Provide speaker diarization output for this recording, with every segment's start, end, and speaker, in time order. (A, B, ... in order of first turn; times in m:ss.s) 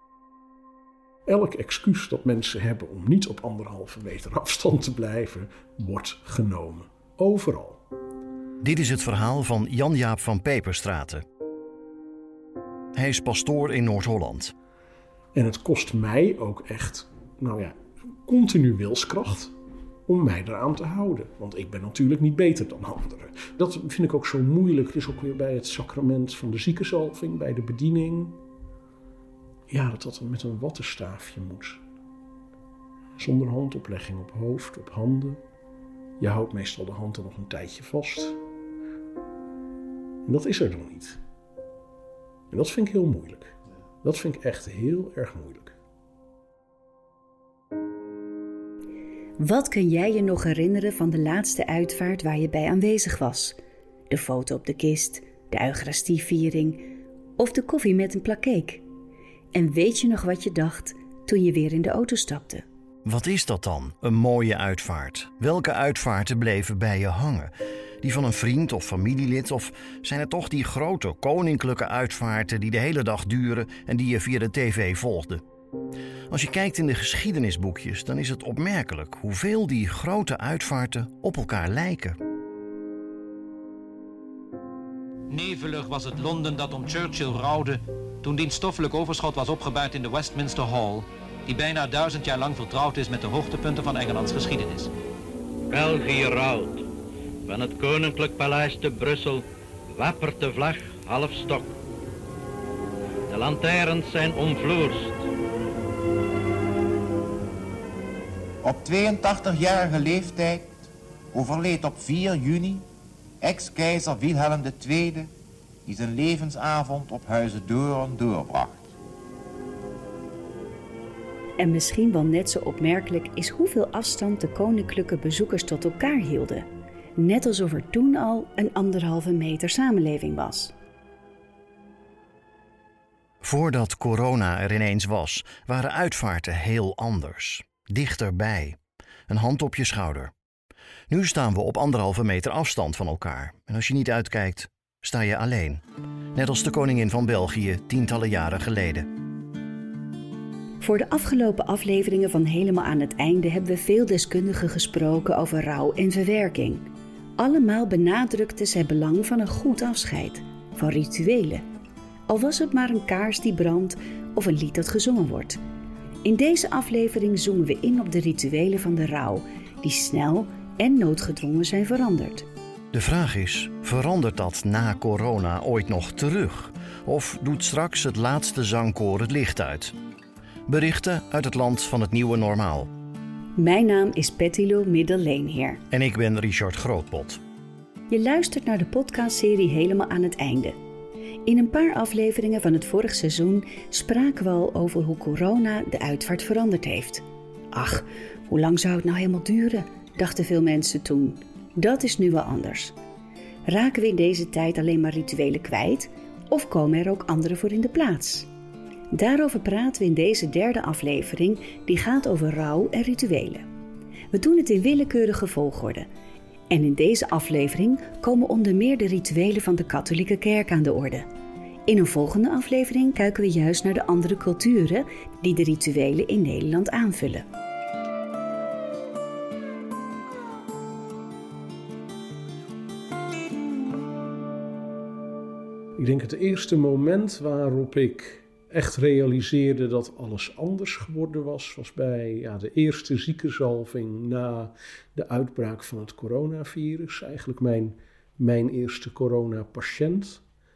0:01.2-0:07.8 A
0:08.6-0:11.2 B
0:12.9-0:14.5 B
0:15.3-0:19.6 A
0:20.1-0:28.4 A
0:29.7-0:31.8 A
0:33.2-0:35.4 A
0:36.2-0:38.4 A
0:40.2-0:41.2 A
0:42.5-0:45.7 A
0:49.4-0:53.6 C
0:54.1-0:56.9 C
0:57.4-0:58.8 C
0:59.5-1:02.6 C
1:03.0-1:15.4 B
1:16.3-1:22.2 B
1:25.3-1:34.9 D
1:35.7-1:36.9 E
1:37.4-1:41.8 E
1:43.3-1:45.2 E
1:48.6-1:52.9 F
1:53.4-1:55.3 F
1:55.9-1:58.8 F
2:01.6-2:10.7 C
2:13.4-2:20.3 B
2:21.1-2:25.8 B
2:26.3-2:29.1 B
2:30.8-2:41.6 C
2:42.3-2:45.6 C
2:46.2-2:52.5 C
2:52.9-2:59.9 B
3:00.7-3:02.9 B
3:03.6-3:05.8 C
3:05.9-3:07.4 B
3:08.1-3:10.8 C
3:11.4-3:23.0 C
3:23.7-3:28.5 C
3:29.1-3:33.6 C
3:34.3-3:36.1 C
3:36.7-3:41.3 C
3:41.9-3:47.5 C
3:56.0-4:10.4 A